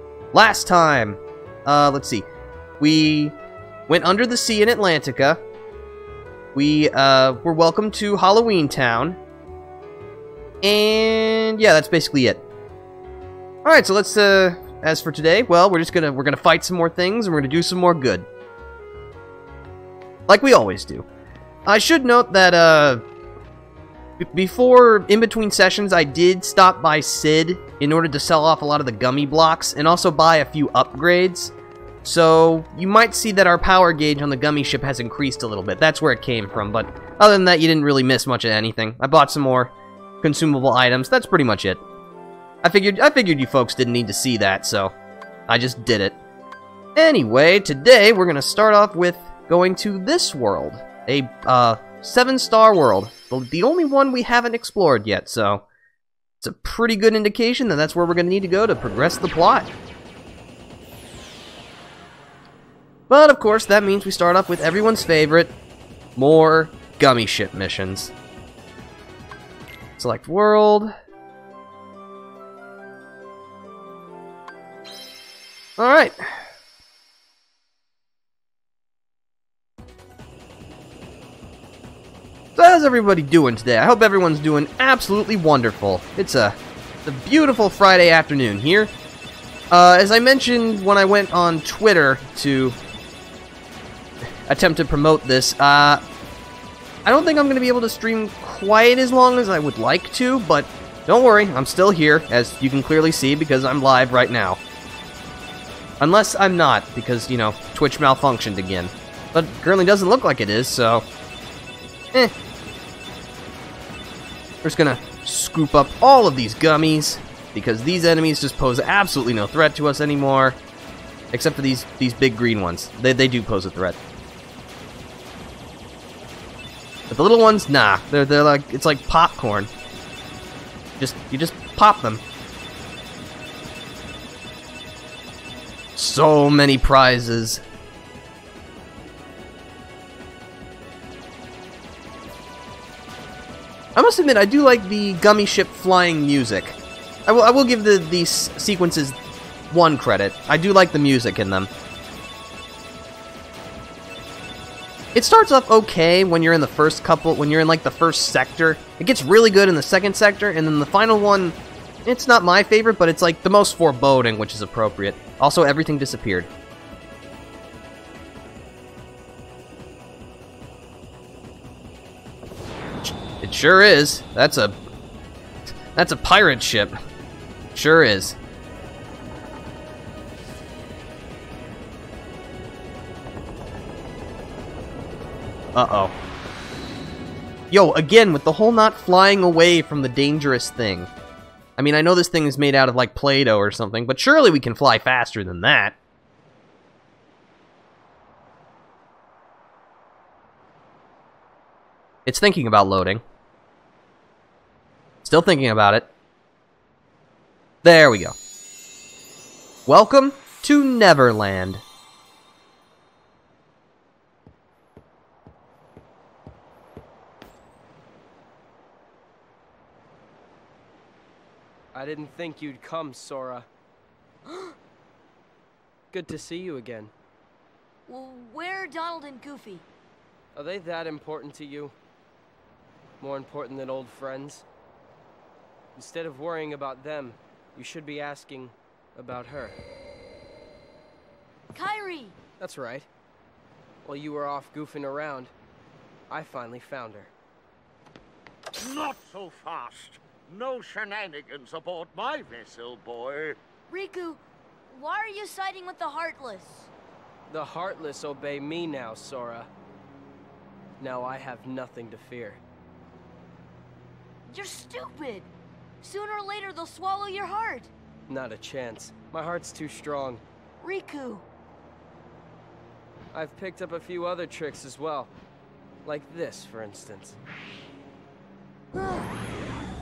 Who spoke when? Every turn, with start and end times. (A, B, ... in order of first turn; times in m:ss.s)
0:00.3-0:02.3 A
0:02.8-0:03.4 A
0:03.9-0:05.4 A
0:06.5-0:09.2 A
0:10.6-0:12.4 A
0:13.6-0:18.3 A
0:20.3-0:21.1 A
0:21.7-0:23.0 A
0:24.2-0:31.5 A
0:32.0-0:41.8 A
0:42.6-0:44.9 A
0:45.5-0:46.2 A
0:47.0-0:55.6 A
0:56.4-0:59.7 A
1:03.1-1:05.5 A
1:06.2-1:08.1 A
1:10.0-1:10.9 A
1:15.8-1:16.4 A
1:22.6-1:28.9 A
1:29.7-1:32.8 A
1:34.5-1:36.0 A
1:37.0-1:44.6 A
1:46.0-1:51.1 A
1:54.6-2:00.6 A
2:01.3-2:04.0 A
2:07.1-2:09.7 A
2:11.0-2:12.2 A
2:16.0-2:17.6 A
2:24.0-2:29.2 A
2:29.7-2:31.7 A
2:35.1-2:46.5 A
2:53.0-2:54.8 A
2:55.9-2:57.0 A
2:57.8-2:58.4 A
3:05.8-3:06.1 A
3:07.7-3:11.1 A
3:11.8-3:16.0 A
3:22.3-3:23.2 A
3:25.2-3:26.1 A
3:27.8-3:28.4 A
3:29.9-3:31.8 A
3:41.9-3:43.7 B
3:44.5-3:44.8 C
3:46.1-3:47.1 B
3:48.1-3:49.8 C
3:50.6-3:51.9 B
3:53.2-3:54.6 B
3:56.0-3:59.8 B
4:01.7-4:02.4 C
4:02.6-4:03.1 B
4:04.0-4:05.5 B
4:06.3-4:07.3 B
4:08.8-4:13.6 D
4:13.9-4:16.9 C
4:17.5-4:19.7 B
4:21.0-4:22.6 B
4:24.5-4:25.5 C
4:26.0-4:27.9 C
4:28.3-4:30.4 B
4:30.8-4:31.4 C
4:33.3-4:35.3 B
4:36.0-4:37.4 B
4:38.9-4:39.3 C